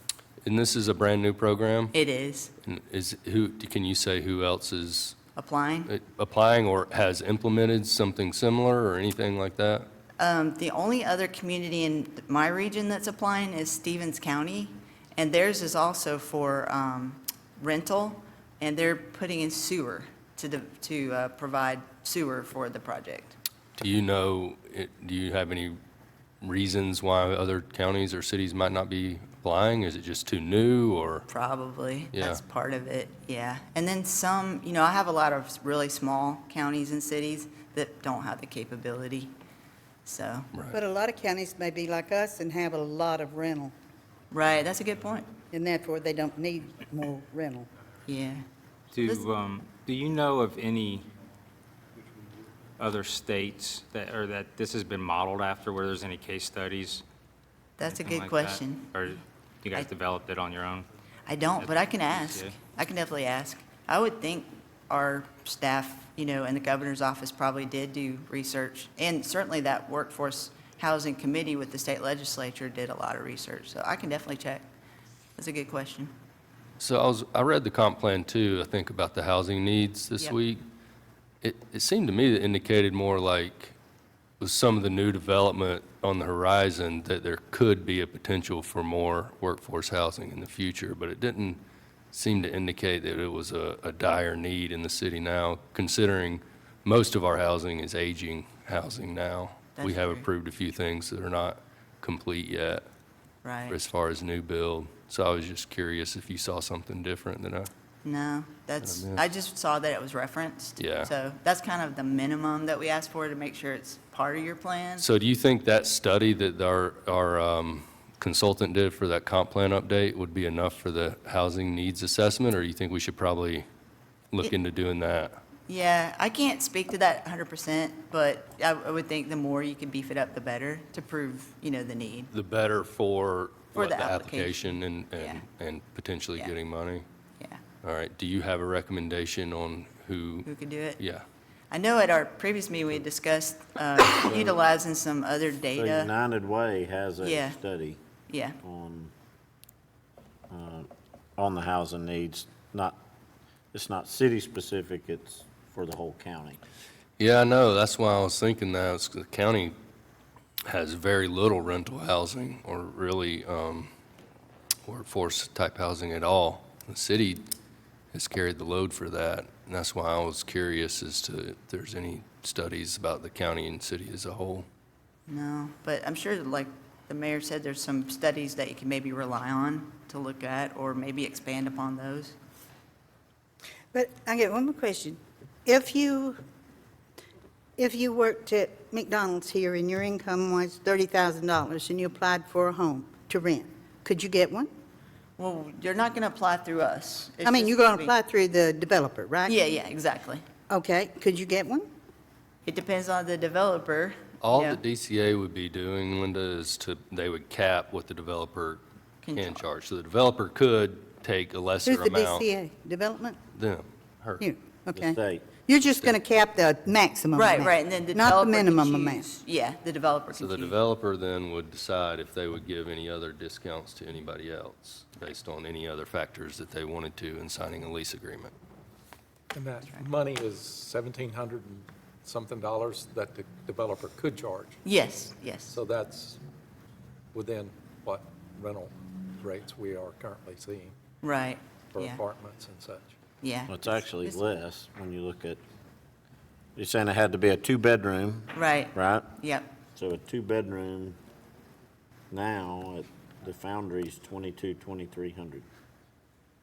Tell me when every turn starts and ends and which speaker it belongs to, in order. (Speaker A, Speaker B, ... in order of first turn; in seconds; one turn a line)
Speaker A: 0.4-1.9
Speaker B: 1.9-2.5
Speaker A: 2.6-5.2
Speaker B: 5.3-5.9
Speaker A: 5.9-9.9
Speaker B: 10.2-23.4
Speaker A: 23.8-25.8
Speaker A: 26.4-31.3
Speaker B: 31.3-39.3
Speaker A: 32.1-32.4
Speaker B: 40.0-40.5
Speaker A: 40.5-40.8
Speaker C: 40.7-43.7
Speaker B: 44.3-45.3
Speaker C: 45.5-47.7
Speaker B: 48.0-48.4
Speaker D: 48.9-51.1
Speaker B: 49.0-49.3
Speaker D: 52.8-57.0
Speaker B: 57.8-58.9
Speaker D: 57.8-60.9
Speaker B: 61.3-74.7
Speaker D: 61.6-62.5
Speaker B: 75.3-76.1
Speaker A: 76.8-80.6
Speaker A: 81.4-83.8
Speaker A: 84.4-91.6
Speaker A: 92.1-102.8
Speaker B: 99.8-100.2
Speaker B: 103.4-103.8
Speaker A: 103.7-107.7
Speaker B: 108.0-115.0
Speaker A: 108.8-109.2
Speaker A: 110.8-111.1
Speaker A: 115.0-123.7
Speaker A: 124.3-125.4
Speaker B: 125.7-132.3
Speaker A: 132.3-137.0
Speaker B: 133.7-135.4
Speaker A: 137.8-141.2
Speaker B: 140.4-141.0
Speaker B: 141.7-146.1
Speaker E: 144.2-144.6
Speaker E: 145.8-148.0
Speaker B: 147.2-147.6
Speaker B: 148.3-148.6
Speaker E: 148.6-149.1
Speaker E: 150.5-153.0
Speaker E: 153.7-156.6
Speaker A: 157.2-159.7
Speaker A: 160.7-163.9
Speaker A: 164.8-167.4
Speaker A: 168.1-174.7
Speaker B: 175.3-182.3
Speaker C: 183.9-186.4
Speaker C: 187.8-194.7
Speaker B: 195.4-198.1
Speaker C: 197.4-199.5
Speaker B: 199.4-200.4
Speaker C: 200.7-201.9
Speaker B: 202.6-204.8
Speaker A: 204.4-208.8
Speaker B: 209.2-209.6
Speaker A: 209.3-212.5
Speaker C: 211.8-213.4
Speaker A: 213.5-214.5
Speaker C: 214.4-219.2
Speaker E: 214.9-215.5
Speaker A: 215.9-216.2
Speaker B: 217.3-220.7
Speaker A: 220.3-228.5
Speaker F: 229.5-234.8
Speaker B: 234.8-235.8
Speaker F: 235.7-236.4
Speaker F: 237.3-240.9
Speaker B: 241.2-242.2
Speaker F: 241.9-243.2
Speaker B: 243.4-244.4
Speaker E: 243.7-245.6
Speaker E: 246.8-249.3
Speaker B: 248.5-249.7
Speaker E: 249.9-251.2
Speaker E: 252.3-255.6